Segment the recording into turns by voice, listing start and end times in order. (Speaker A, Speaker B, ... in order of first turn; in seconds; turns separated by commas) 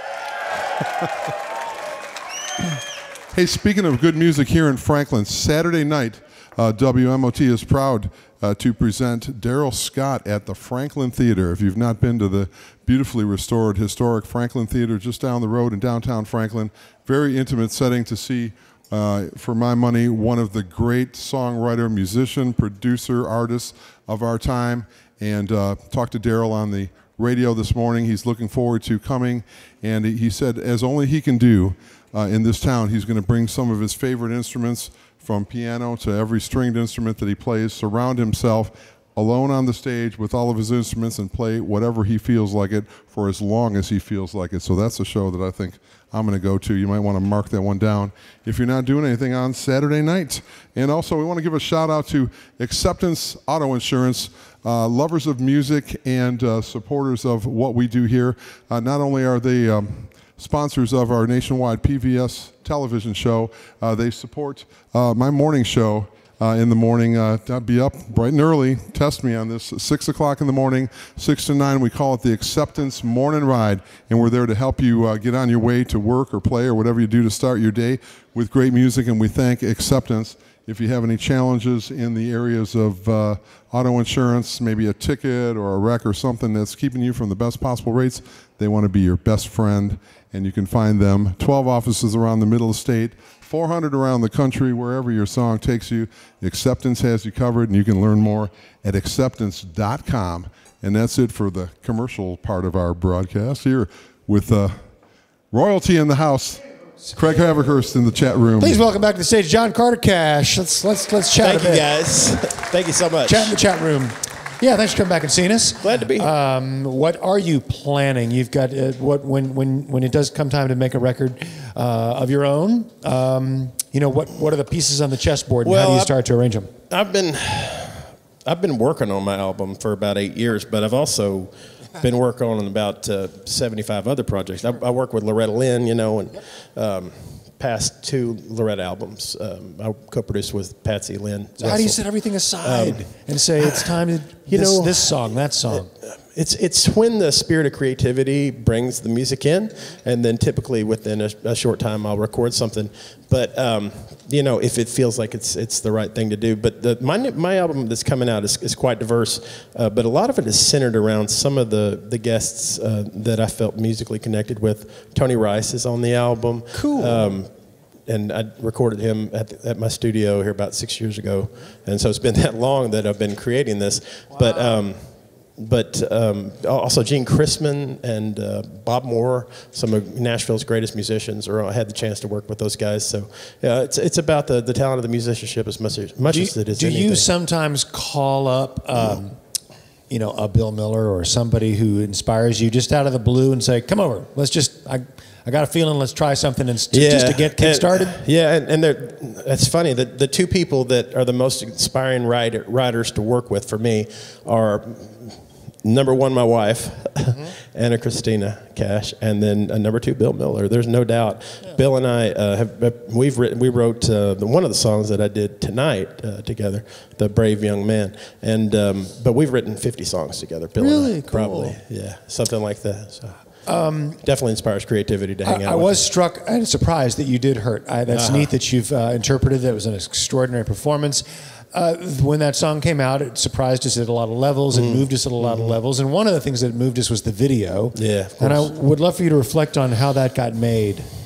Speaker A: 3.3-104.8, Speaker A: 105.5-108.8, Speaker B: 108.6-111.9, Speaker C: 111.4-113.5, Speaker B: 113.2-126.7, Speaker C: 115.8-116.3, Speaker C: 125.6-126.1, Speaker C: 126.9-167.5, Speaker B: 141.6-145.9, Speaker B: 166.7-167.3, Speaker C: 168.0-187.2, Speaker B: 174.3-174.8, Speaker B: 186.3-189.4, Speaker B: 190.1-198.2, Speaker C: 196.9-223.6, Speaker B: 220.8-221.8, Speaker B: 223.7-224.2, Speaker C: 224.2-226.0, Speaker B: 225.4-241.1, Speaker C: 228.1-228.5, Speaker C: 234.7-235.7, Speaker C: 237.9-238.7